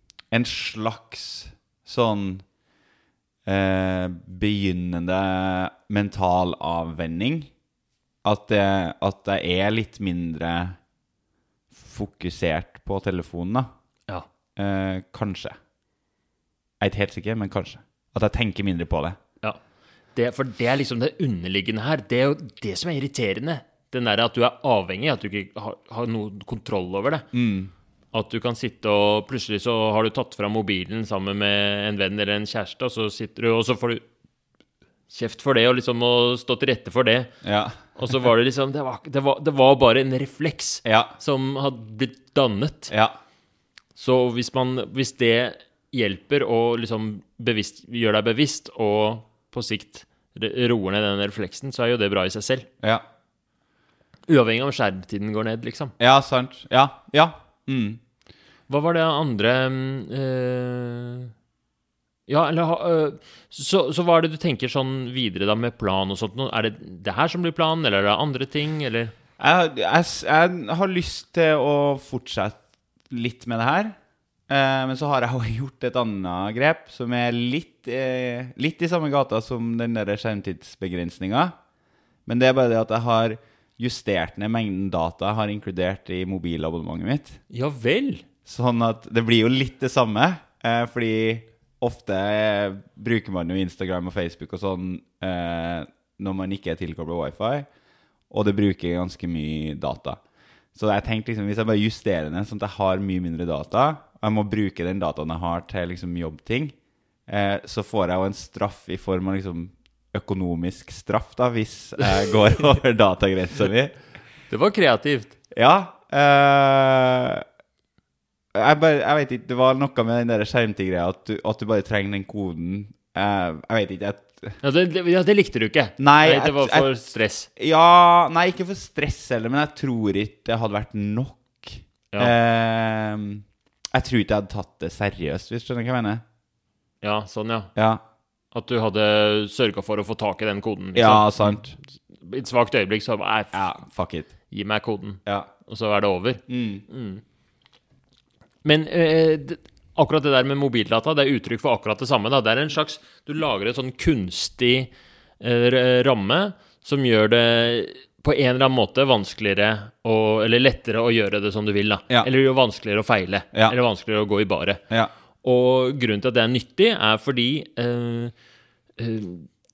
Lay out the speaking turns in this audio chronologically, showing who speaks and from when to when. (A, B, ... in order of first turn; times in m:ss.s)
0:00.3-0:02.4 A
0:03.4-0:07.5 A
0:08.2-0:10.8 A
0:11.7-0:13.7 A
0:14.6-0:15.5 A
0:16.8-0:19.2 A
0:20.1-0:27.3 B
0:27.3-0:27.7 A
0:28.1-0:34.0 B
0:35.1-0:37.3 B
0:37.4-0:37.8 A
0:37.9-0:42.9 B
0:40.8-0:41.2 A
0:44.0-0:52.7 B
0:54.3-0:55.9 B
0:56.0-0:58.0 A
0:58.7-1:01.3 B
1:02.3-1:09.1 B
1:09.4-1:13.9 A
1:14.5-1:21.5 A
1:22.2-1:27.4 A
1:27.5-1:28.2 B
1:28.4-1:37.7 A
1:38.3-1:40.2 A
1:40.7-1:46.7 A
1:47.3-1:53.9 A
1:54.5-1:55.3 B
1:55.5-1:57.4 A
1:58.5-2:04.6 A
2:04.6-2:07.5 B
2:06.0-2:06.9 A
2:07.6-2:16.2 A
2:17.0-2:17.7 B
2:17.7-2:18.0 A
2:18.5-2:21.6 B
2:20.9-2:21.8 A
2:22.1-2:23.7 B
2:23.5-2:24.3 A
2:24.5-2:27.2 B
2:26.5-2:26.8 A
2:28.6-2:44.8 B
2:45.4-2:48.3 B
2:49.0-2:49.5 B